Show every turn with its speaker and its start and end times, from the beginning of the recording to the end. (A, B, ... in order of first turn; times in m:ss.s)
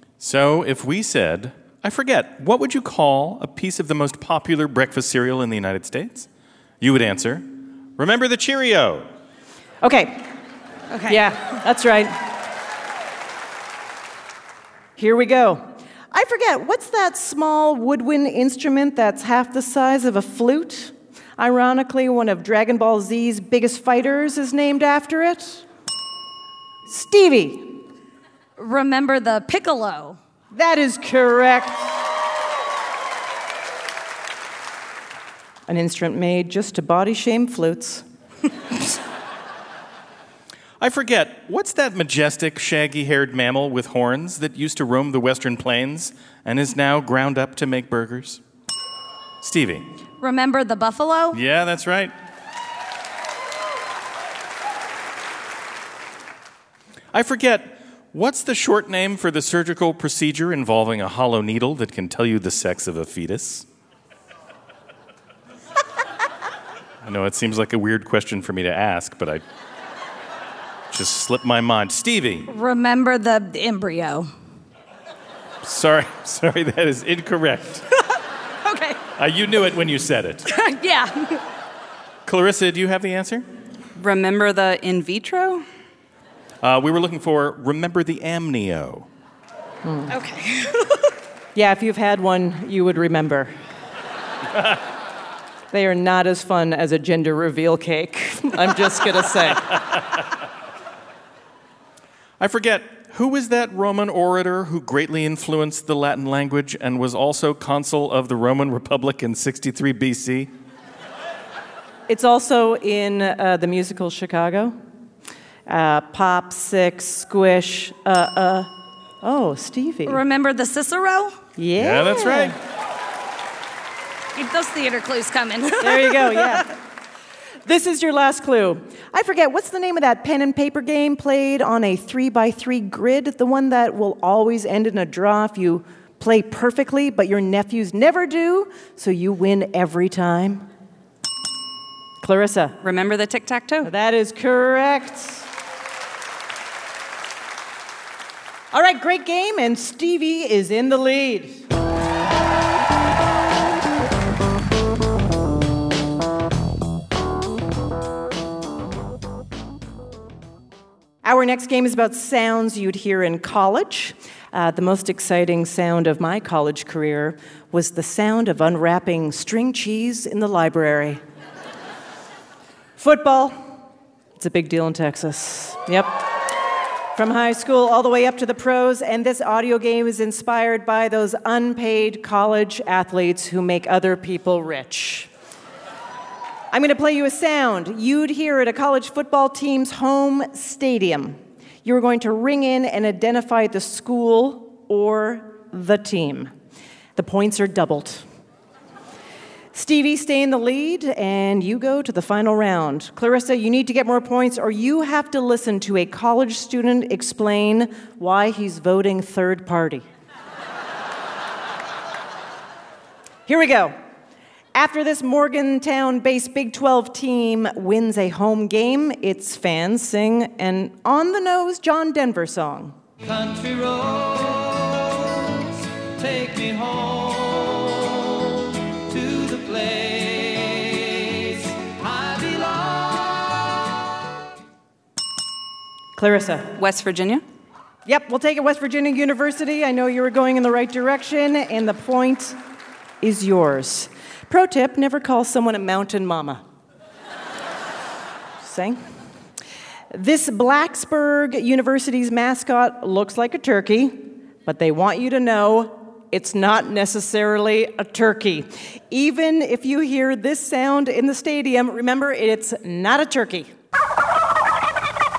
0:00.2-0:06.3 A
0:06.8-0:09.1 A
0:09.8-0:10.3 B
0:11.0-0:12.2 B
0:15.0-0:25.6 B
0:26.9-0:27.8 B
0:28.6-0:30.2 C
0:30.5-0:31.9 B
0:35.7-0:38.0 B
0:40.8-0:48.4 A
0:49.4-0:49.9 A
0:50.2-0:51.4 C
0:51.3-0:52.1 A
0:57.1-1:03.6 A
1:07.0-1:09.4 A
1:10.9-1:12.5 A
1:12.5-1:14.3 C
1:15.6-1:17.8 A
1:18.6-1:19.0 C
1:19.2-1:20.4 A
1:20.5-1:21.4 C
1:22.3-1:23.4 A
1:24.0-1:25.7 D
1:26.6-1:29.1 A
1:29.8-1:30.1 B
1:30.2-1:30.7 C
1:31.6-1:33.5 B
1:35.7-1:39.8 B
1:42.4-1:50.5 A
1:52.1-1:54.8 B
1:55.7-1:58.7 B
1:59.2-2:00.2 B
2:00.1-2:01.4 C
2:01.6-2:02.6 B
2:01.8-2:02.6 A
2:04.4-2:06.6 C
2:05.8-2:06.8 B
2:07.7-2:20.7 B
2:22.2-2:22.8 B
2:22.8-2:23.9 D
2:23.8-2:25.4 B
2:28.7-2:31.6 B
2:41.2-2:51.2 B
2:53.0-2:53.6 B
2:54.4-2:56.2 B
2:57.2-3:05.3 B
3:06.7-3:16.5 B
3:17.2-3:18.2 B
3:19.7-3:30.0 B
3:33.5-3:34.0 B
3:34.7-3:43.0 B
3:43.2-3:53.6 E
3:56.2-3:56.7 B
3:56.8-3:57.4 D
3:58.1-4:02.6 B
4:03.2-4:06.6 B
4:08.6-4:09.0 B
4:10.1-4:23.7 B